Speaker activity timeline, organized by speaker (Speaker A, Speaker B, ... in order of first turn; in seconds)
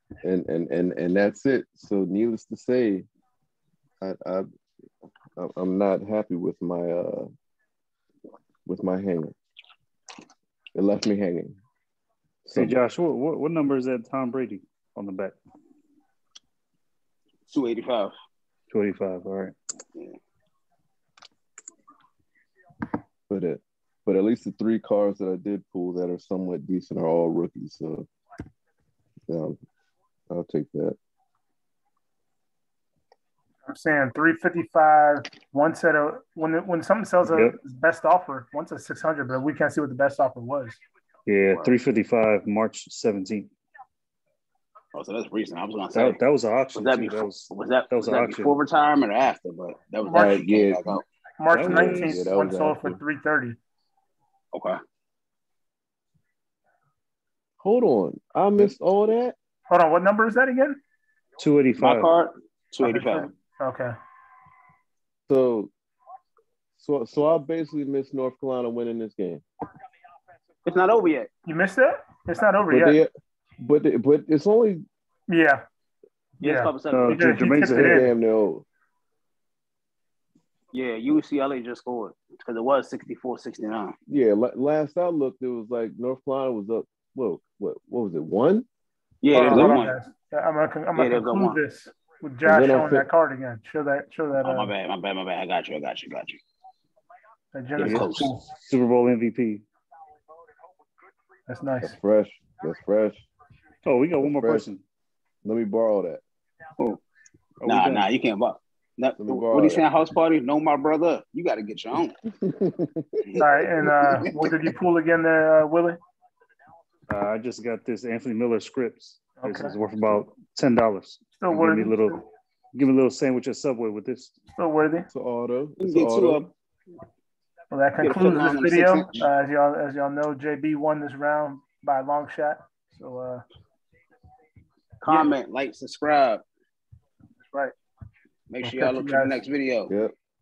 Speaker A: 0.2-3.1, 4.0-4.5, 5.4-7.3, 8.7-9.4, 10.8-11.6, 12.5-12.8, 23.3-28.1, 29.3-29.6, 30.3-31.0, 50.1-50.9, 51.6-53.0, 57.6-59.4, 65.3-65.7, 66.8-69.4, 72.7-74.8, 77.6-78.7, 84.1-88.7, 92.5-93.1, 101.8-103.2, 104.2-104.7, 105.4-106.2, 109.2-109.8, 112.3-113.2, 125.1-126.5
Speaker B: 12.6-15.4, 18.7-19.6, 37.3-37.6, 41.3-43.5, 45.9-48.6, 51.5-52.2, 61.4-62.1, 76.9-78.0, 97.8-99.6, 103.8-104.8, 107.6-108.1, 117.1-122.1, 122.7-124.3
Speaker C: 17.5-18.1, 44.9-46.2, 46.7-51.0, 54.5-54.8, 61.8-63.3, 70.7-71.3, 76.4-77.7, 80.7-83.9, 89.2-90.0, 91.0-91.6, 94.4-96.4, 97.8-98.3, 107.7-112.2, 113.2-114.5, 125.8-126.5, 128.0-129.3, 135.0-136.4, 138.5-139.9
Speaker D: 33.7-40.8, 50.0-50.4, 51.4-53.6, 59.7-60.8, 62.8-64.0, 71.5-73.0, 75.3-75.6, 76.4-78.1, 89.3-94.7, 97.5-98.5, 101.5-102.0, 113.4-116.0, 119.4-119.8, 121.4-122.2, 124.5-125.1, 127.7-133.4, 137.4-137.7, 138.6-139.4